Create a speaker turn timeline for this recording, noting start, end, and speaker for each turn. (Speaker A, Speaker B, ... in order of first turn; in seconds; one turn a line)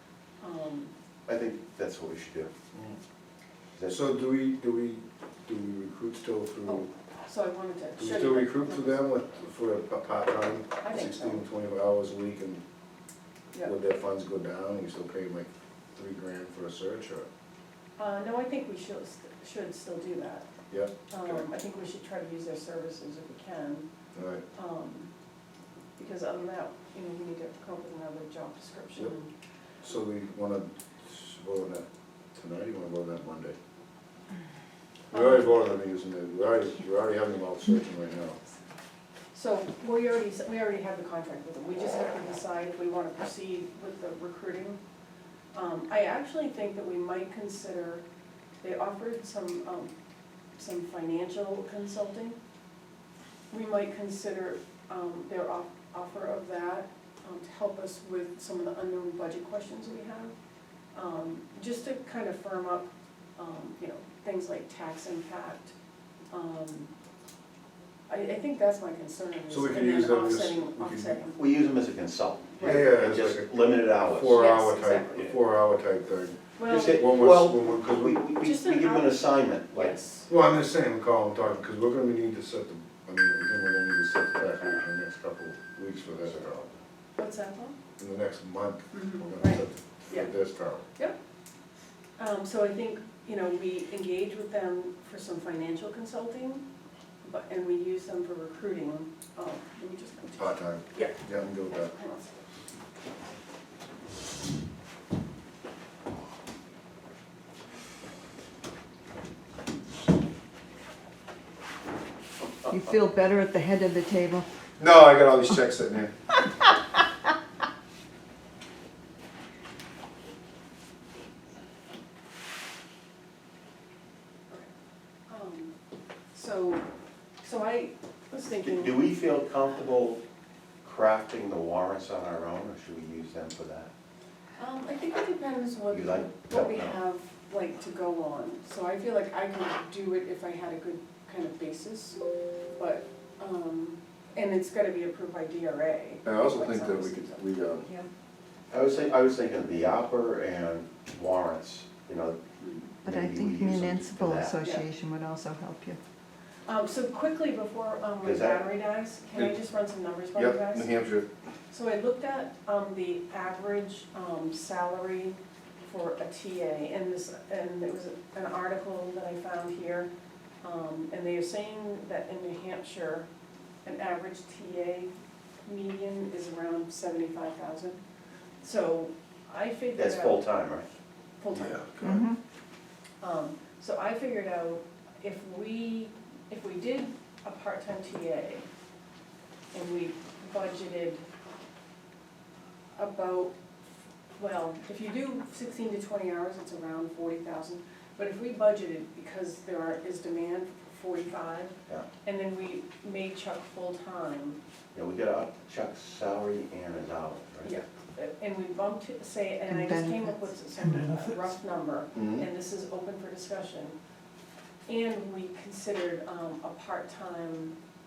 Speaker A: 0.4-0.9
Speaker B: 1.3-2.5
Speaker C: 3.9-6.9
Speaker A: 6.7-9.0
Speaker C: 8.0-12.6
Speaker A: 10.8-11.4
Speaker C: 13.6-17.3
Speaker A: 18.0-20.5
Speaker C: 20.7-21.4
Speaker A: 21.1-23.9
Speaker C: 24.1-24.4
Speaker A: 24.5-25.1
Speaker A: 26.0-29.3
Speaker C: 29.8-33.5
Speaker C: 35.1-38.4
Speaker A: 39.3-44.8
Speaker A: 45.5-48.0
Speaker A: 48.6-49.9
Speaker A: 50.6-52.4
Speaker A: 53.5-60.3
Speaker A: 60.9-65.7
Speaker A: 66.3-66.9
Speaker A: 68.1-71.4
Speaker C: 69.5-71.2
Speaker B: 71.3-74.4
Speaker A: 72.6-72.9
Speaker C: 72.6-78.2
Speaker A: 74.2-75.3
Speaker A: 76.6-77.0
Speaker B: 76.7-80.0
Speaker A: 78.4-80.3
Speaker C: 80.3-86.7
Speaker A: 87.2-87.8
Speaker C: 88.0-90.8
Speaker A: 88.9-90.3
Speaker A: 92.2-96.6
Speaker A: 97.2-102.4
Speaker C: 100.3-101.9
Speaker D: 112.6-114.5
Speaker C: 114.8-116.1
Speaker A: 125.3-125.7
Speaker A: 126.3-126.8
Speaker A: 127.4-129.0
Speaker B: 128.6-130.2
Speaker B: 130.8-133.9
Speaker A: 134.6-142.2
Speaker B: 135.9-137.0
Speaker A: 142.7-148.0
Speaker C: 146.2-147.8
Speaker B: 148.7-152.4
Speaker A: 152.6-152.9
Speaker B: 153.0-154.6
Speaker D: 153.0-156.0
Speaker A: 156.7-160.9
Speaker B: 158.2-158.6
Speaker C: 160.3-161.3
Speaker A: 161.7-170.1
Speaker A: 170.6-173.3
Speaker A: 173.8-175.1
Speaker A: 175.6-178.0
Speaker A: 178.6-180.5
Speaker B: 179.9-180.8
Speaker A: 181.4-181.9
Speaker C: 181.5-182.3
Speaker D: 182.0-182.4
Speaker A: 183.2-188.7
Speaker A: 189.7-191.2
Speaker A: 192.9-193.5
Speaker A: 194.4-204.6
Speaker B: 204.9-207.8
Speaker A: 207.6-213.9
Speaker D: 209.7-211.2
Speaker C: 212.1-212.4
Speaker A: 214.9-217.8